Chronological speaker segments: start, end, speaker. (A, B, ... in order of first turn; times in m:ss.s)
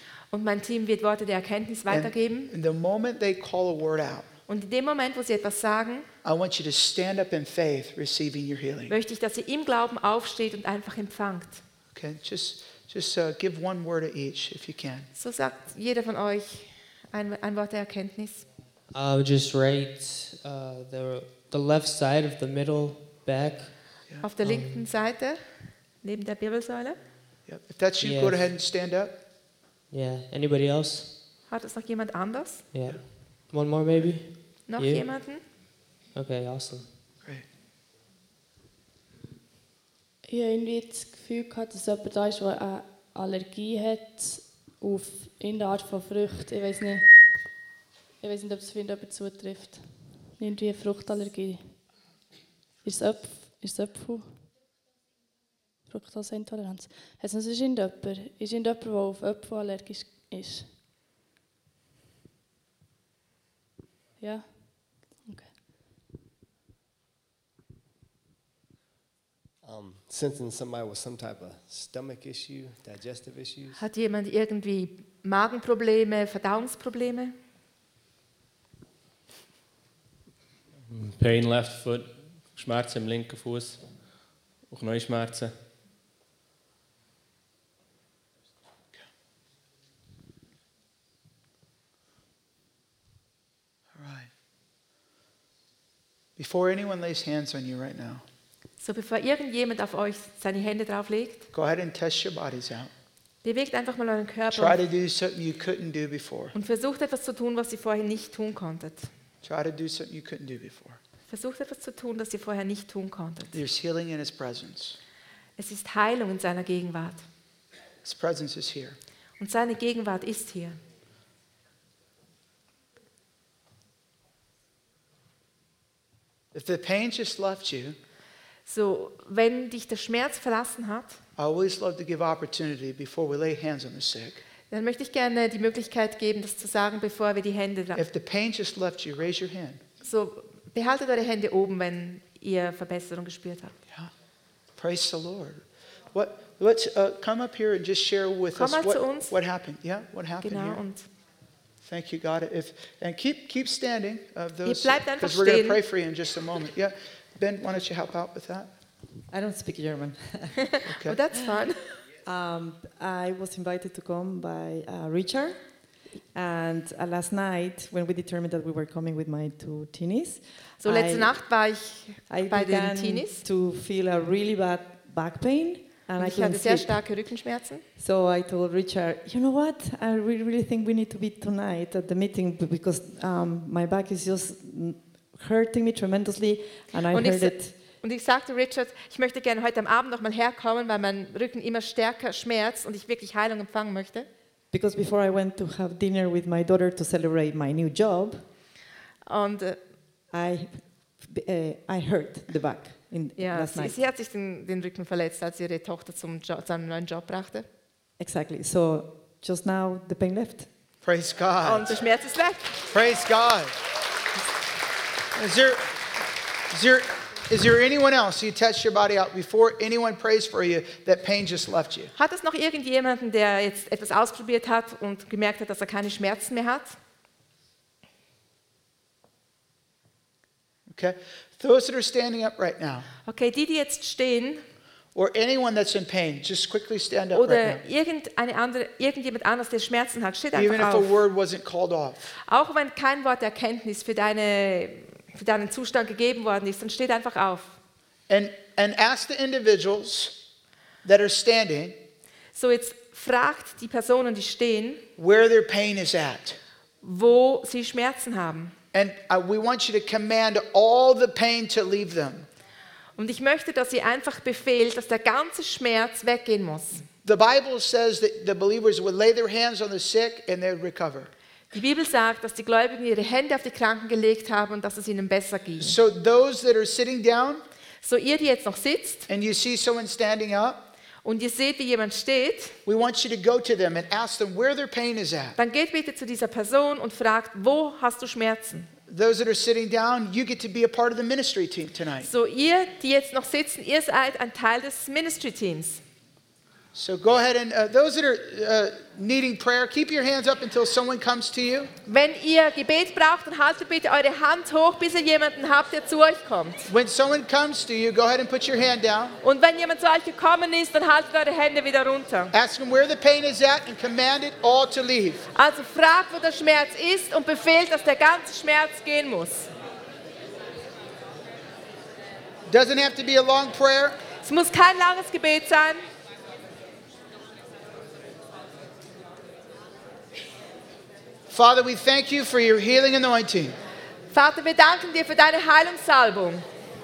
0:00.3-0:02.5 A
0:01.9-0:04.3 B
0:04.5-0:06.1 A
0:06.2-0:09.0 B
0:08.9-0:11.6 A
0:11.9-0:15.1 B
0:15.2-0:18.5 A
0:18.9-0:23.8 C
0:24.2-0:25.4 A
0:24.4-0:24.9 C
0:26.0-0:27.0 A
0:27.5-0:29.2 B
0:28.0-0:28.4 C
0:29.9-0:31.2 C
0:31.5-0:32.6 A
0:32.7-0:35.1 C
0:34.7-0:35.4 A
0:36.1-0:36.9 C
0:40.3-0:47.3 D
0:48.2-0:51.8 D
0:52.8-0:54.5 D
0:55.9-1:00.8 D
1:04.2-1:05.6 D
1:09.6-1:13.8 E
1:13.8-1:17.4 A
1:20.9-1:23.8 F
1:24.7-1:25.6 F
1:33.9-1:34.3 B
1:36.4-1:38.2 B
1:38.8-1:41.5 A
1:41.5-1:42.9 B
1:43.4-1:44.8 A
1:44.5-1:46.6 B
1:46.5-1:49.1 A
1:49.4-1:51.0 B
1:51.3-1:53.6 A
1:53.5-1:55.0 B
1:55.6-1:57.2 A
1:58.0-1:59.0 B
1:59.4-2:00.8 A
2:06.5-2:08.0 B
2:08.7-2:11.2 A
2:11.4-2:14.4 B
2:14.7-2:18.0 A
2:18.0-2:19.8 B
2:20.0-2:23.8 A
2:24.8-2:30.8 B
2:28.5-2:29.4 A
2:30.4-2:31.1 A
2:31.8-2:38.7 B
2:34.6-2:35.8 A
2:39.3-2:40.8 G
2:40.9-2:41.2 B
2:41.0-2:41.9 A
2:42.2-2:51.5 G
2:50.8-2:53.4 A
2:52.3-2:57.4 G
2:56.2-2:57.8 A
2:58.0-3:07.7 G
3:07.1-3:14.3 A
3:14.7-3:18.4 G
3:19.3-3:19.8 A
3:20.3-3:24.0 G
3:23.4-3:27.7 A
3:28.2-3:30.7 G
3:31.0-3:32.0 B
3:31.6-3:32.8 A
3:32.9-3:33.7 B
3:35.4-3:35.9 B
3:36.7-3:42.1 B
3:42.2-3:47.0 A
3:50.9-3:53.1 B
3:53.3-3:54.6 A
3:55.2-3:57.8 B
3:57.3-4:01.2 A
4:00.6-4:02.3 B
4:02.5-4:07.8 A
4:08.3-4:10.4 B
4:11.0-4:12.0 B
4:12.5-4:15.0 A
4:15.2-4:16.6 B
4:17.0-4:18.8 A
4:18.9-4:22.5 B
4:23.2-4:27.0 A
4:27.2-4:31.3 B
4:31.7-4:36.0 A
4:35.8-4:37.6 B
4:38.0-4:39.3 A
4:39.3-4:40.9 B
4:41.2-4:42.8 A
4:42.9-4:45.6 B
4:45.6-4:48.9 A
4:49.1-4:52.3 B
4:52.2-4:56.0 A
4:56.9-5:01.9 B
5:02.1-5:06.9 A
5:06.9-5:09.4 B
5:09.4-5:12.5 A
5:12.5-5:15.5 B
5:15.6-5:19.7 A
5:22.7-5:24.2 B
5:24.4-5:26.0 A
5:31.5-5:33.8 B
5:34.3-5:36.6 A